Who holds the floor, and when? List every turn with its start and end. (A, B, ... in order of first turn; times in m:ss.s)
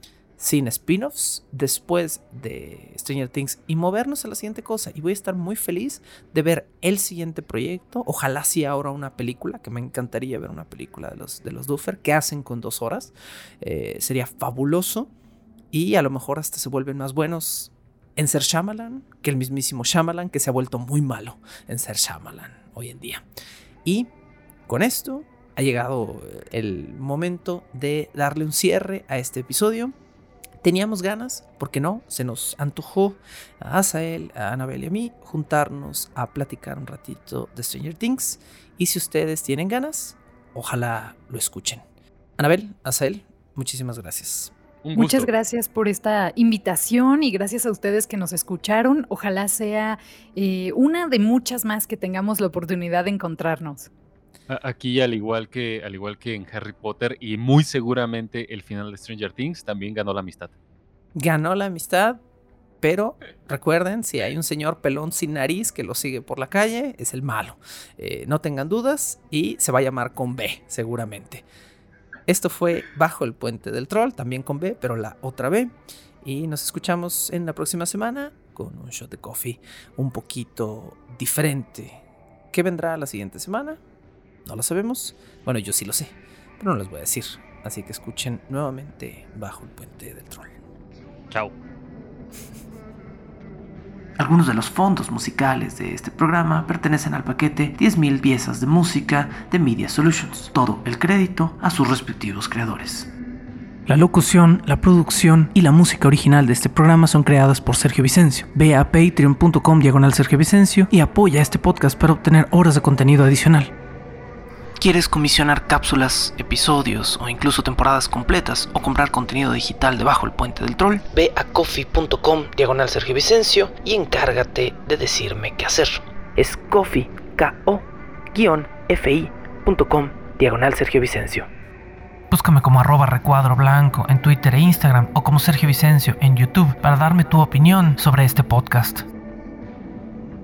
0:00.4-0:15.1 A
0:15.7-0:23.2 A
0:23.8-0:24.1 A
0:24.7-0:30.0 A
0:30.6-0:41.8 A
0:42.4-0:44.5 A
0:44.8-0:45.3 B
0:45.0-0:53.9 C
0:54.5-1:00.5 B
1:01.2-1:02.2 A
1:02.8-1:11.4 A
1:12.3-1:22.0 A
1:22.5-1:23.8 A
1:24.4-1:30.6 A
1:31.3-1:31.6 B
1:34.2-1:43.1 A
1:43.9-1:53.7 A
1:54.8-2:11.5 A
2:12.3-2:19.1 A